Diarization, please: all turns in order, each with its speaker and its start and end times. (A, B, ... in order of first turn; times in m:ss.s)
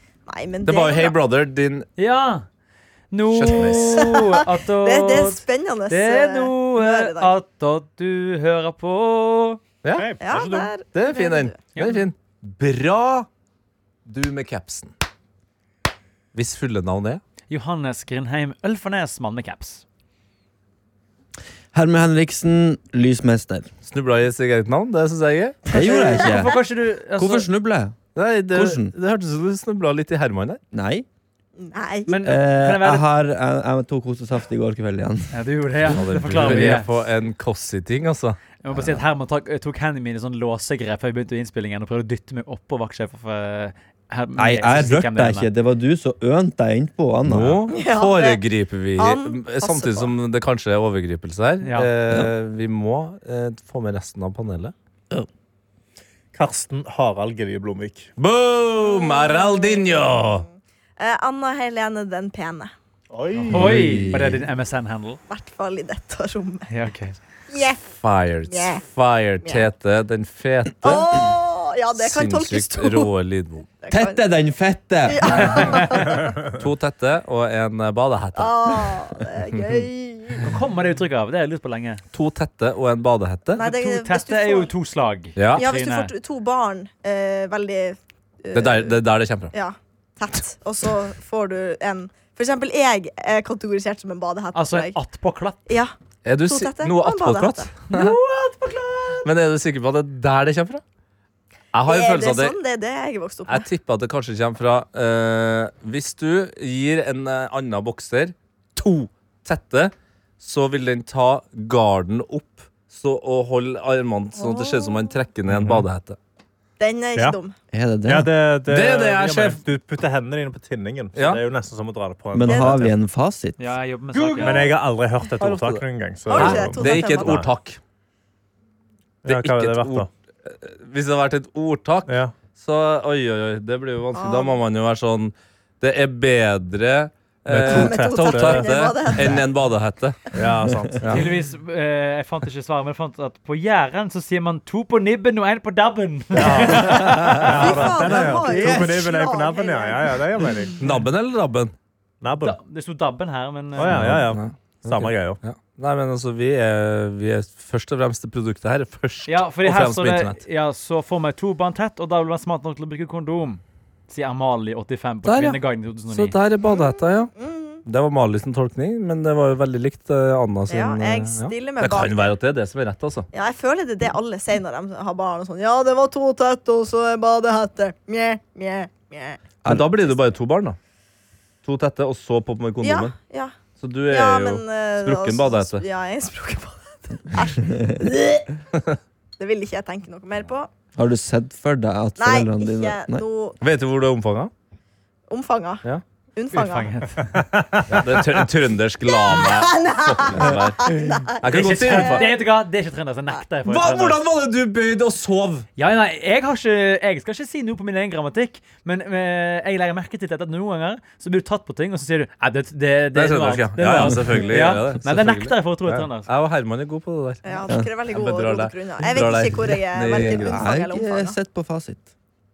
0:00.3-0:01.2 A
0:00.7-0:01.9 B
0:02.0-0:02.4 C
0:03.1-0:09.6 C
0:03.3-0:04.1 B
0:04.0-0:07.4 A
0:09.8-0:10.1 B
0:09.9-0:10.7 D
0:10.2-0:11.6 A
0:10.9-0:13.3 B
0:11.7-0:12.0 C
0:14.1-0:14.9 B
0:16.3-0:17.2 B
0:17.5-0:19.8 C
0:21.7-0:23.7 E
0:23.9-0:25.7 B
0:25.7-0:26.6 E
0:25.7-0:26.6 A
0:25.7-0:27.5 C
0:27.2-0:28.0 E
0:28.2-0:30.6 B
0:28.5-0:28.9 E
0:30.7-0:31.1 E
0:31.6-0:32.2 A
0:32.1-0:33.1 C
0:32.2-0:35.3 E
0:35.3-0:36.9 C
0:35.9-0:36.7 E
0:35.9-0:38.4 B
0:38.6-0:45.5 C
0:38.7-0:39.0 E
0:44.4-0:47.6 E
0:47.3-0:54.7 B
0:47.7-0:48.4 A
0:49.0-0:50.1 A
0:51.6-0:51.9 C
0:56.3-0:58.1 D
0:58.2-1:00.5 B
0:58.8-1:00.3 A
1:01.0-1:02.7 A
1:03.1-1:03.9 D
1:03.4-1:05.2 C
1:03.5-1:04.3 B
1:03.8-1:04.3 E
1:05.3-1:06.7 A
1:06.7-1:07.2 C
1:07.5-1:07.8 A
1:07.9-1:11.3 B
1:08.5-1:08.8 A
1:10.8-1:13.1 A
1:12.0-1:13.7 B
1:13.8-1:14.2 A
1:13.9-1:15.8 E
1:15.1-1:16.3 A
1:16.5-1:19.8 B
1:18.4-1:20.5 A
1:20.4-1:22.0 C
1:22.1-1:23.6 B
1:23.6-1:24.7 A
1:23.6-1:26.1 C
1:25.4-1:25.6 B
1:25.5-1:29.0 A
1:28.5-1:29.5 B
1:29.5-1:35.0 A
1:34.6-1:35.7 C
1:35.7-1:35.9 A
1:36.2-1:38.2 B
1:36.4-1:37.7 A
1:37.9-1:39.2 C
1:39.2-1:40.8 B
1:41.7-1:42.6 B
1:41.8-1:43.7 A
1:43.5-1:56.2 B
1:54.4-1:55.2 A
1:55.5-1:55.8 D
1:56.8-1:57.6 A
1:57.7-1:58.3 E
1:58.1-2:02.9 D
1:58.7-1:59.6 B
2:01.2-2:01.4 B
2:02.3-2:03.6 E
2:02.5-2:02.8 A
2:03.6-2:04.8 C
2:04.2-2:04.7 B
2:04.3-2:07.5 D
2:05.4-2:07.8 B
2:06.3-2:07.5 A
2:09.3-2:10.1 D
2:09.3-2:20.2 B
2:12.1-2:12.3 D
2:14.2-2:14.6 A
2:17.5-2:18.6 D
2:17.7-2:19.4 A
2:20.3-2:21.2 D
2:21.0-2:21.3 B
2:21.1-2:27.3 C
2:26.4-2:30.9 D
2:26.4-2:30.2 A
2:26.9-2:27.7 B
2:28.4-2:28.9 E
2:30.8-2:31.7 B
2:32.2-2:32.6 D
2:32.4-2:34.1 C
2:33.8-2:35.4 D
2:33.8-2:40.4 B
2:39.3-2:46.4 C
2:45.2-2:47.3 B
2:46.8-2:47.8 A
2:47.8-2:53.3 B
2:50.7-2:52.3 A
2:53.3-2:59.4 A
2:59.7-3:00.8 B
3:01.6-3:03.1 B
3:02.8-3:03.5 A
3:03.8-3:05.8 B
3:04.1-3:08.4 A
3:07.6-3:08.0 E
3:09.4-3:10.7 A
3:11.0-3:13.2 E
3:12.2-3:13.6 A
3:13.6-3:14.5 B
3:15.3-3:15.8 A
3:16.4-3:17.0 A
3:16.5-3:17.4 C
3:17.3-3:18.4 D
3:17.9-3:22.4 B
3:19.3-3:22.2 A
3:21.4-3:24.2 C
3:23.7-3:25.7 B
3:25.8-3:36.3 C
3:33.1-3:37.5 B
3:37.4-3:41.4 A
3:38.1-3:40.6 B
3:40.2-3:42.1 E